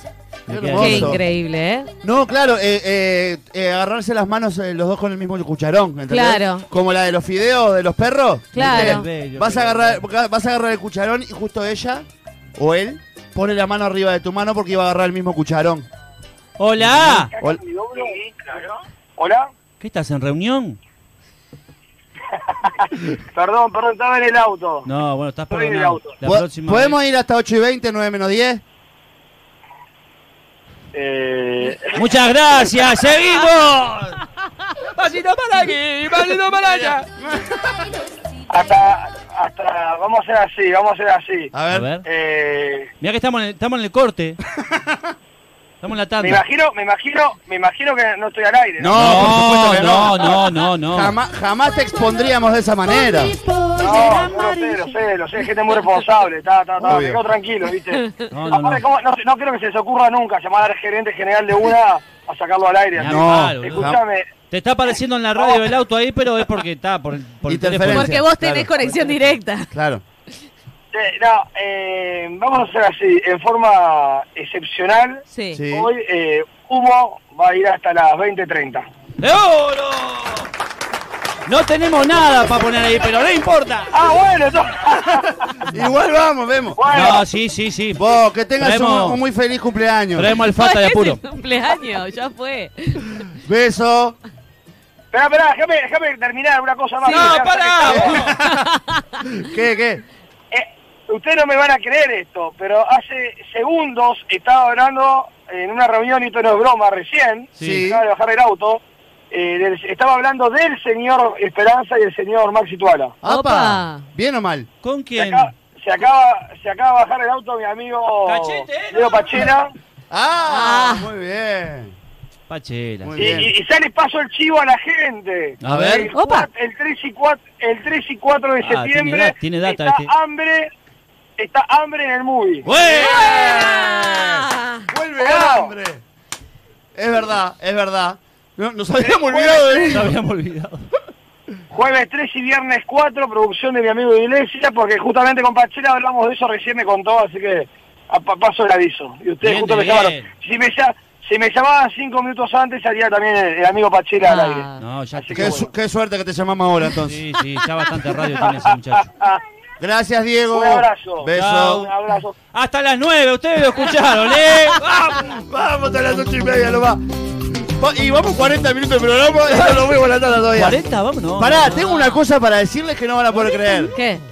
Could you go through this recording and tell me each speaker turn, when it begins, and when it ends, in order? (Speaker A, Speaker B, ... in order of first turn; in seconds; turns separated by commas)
Speaker A: 0.5-1.2, Speaker B: 0.5-1.2, Speaker C: 0.8-1.9, Speaker B: 2.0-15.9, Speaker C: 6.1-6.7, Speaker C: 8.5-9.1, Speaker A: 8.6-10.0, Speaker A: 16.6-17.3, Speaker D: 16.9-19.5, Speaker A: 19.8-20.8, Speaker D: 22.5-24.9, Speaker A: 24.9-27.0, Speaker D: 25.5-26.2, Speaker B: 26.2-28.6, Speaker D: 30.9-32.1, Speaker A: 31.9-34.2, Speaker E: 34.8-37.1, Speaker B: 36.6-37.9, Speaker D: 38.5-41.5, Speaker B: 41.5-41.9, Speaker A: 41.7-42.0, Speaker D: 42.0-42.9, Speaker A: 43.0-44.4, Speaker B: 44.5-45.1, Speaker A: 45.8-46.4, Speaker D: 46.2-49.2, Speaker B: 48.8-53.4, Speaker A: 48.9-51.1, Speaker D: 53.7-64.3, Speaker A: 54.1-54.5, Speaker B: 56.8-57.2, Speaker A: 58.3-58.8, Speaker A: 62.9-64.0, Speaker B: 63.0-64.0, Speaker A: 64.5-68.2, Speaker D: 65.4-65.6, Speaker B: 67.5-68.7, Speaker C: 67.9-69.7, Speaker A: 68.8-69.1, Speaker B: 69.7-70.0, Speaker D: 70.9-78.9, Speaker C: 75.3-75.6, Speaker B: 75.5-75.9, Speaker A: 79.2-80.5, Speaker A: 81.5-84.0, Speaker D: 83.9-85.7, Speaker B: 85.7-87.1, Speaker D: 86.8-87.2, Speaker A: 86.9-88.0, Speaker B: 87.9-90.3, Speaker A: 88.6-89.2, Speaker A: 90.1-91.2, Speaker C: 90.4-93.3, Speaker B: 93.3-94.2, Speaker D: 95.1-98.2, Speaker C: 97.0-97.4, Speaker A: 97.1-98.3, Speaker B: 97.8-98.7, Speaker C: 98.4-99.2, Speaker B: 99.2-100.0, Speaker D: 100.5-113.2, Speaker A: 107.5-107.9, Speaker B: 107.6-108.0, Speaker B: 113.2-114.7, Speaker C: 113.2-114.0, Speaker A: 114.8-115.5, Speaker D: 115.2-119.7, Speaker A: 118.2-119.5, Speaker B: 120.1-121.9, Speaker C: 120.4-121.1, Speaker A: 122.5-123.4, Speaker B: 123.0-123.5, Speaker D: 123.2-130.7, Speaker A: 125.6-126.1, Speaker C: 126.1-126.5, Speaker A: 128.6-130.1, Speaker D: 131.4-132.7, Speaker A: 132.6-133.2, Speaker B: 132.7-136.0, Speaker C: 132.9-134.9, Speaker D: 135.2-135.7, Speaker B: 136.9-140.1, Speaker A: 139.8-140.9, Speaker D: 141.7-155.7, Speaker A: 149.4-150.3, Speaker C: 154.2-154.8, Speaker A: 154.8-155.7, Speaker B: 155.3-157.2, Speaker A: 157.0-159.1, Speaker D: 158.4-159.4, Speaker B: 159.8-161.8, Speaker D: 160.5-162.3, Speaker A: 161.3-161.9, Speaker A: 162.5-164.8, Speaker B: 164.8-170.8, Speaker A: 170.5-171.8, Speaker B: 171.4-173.9, Speaker C: 171.7-172.2, Speaker C: 173.9-174.2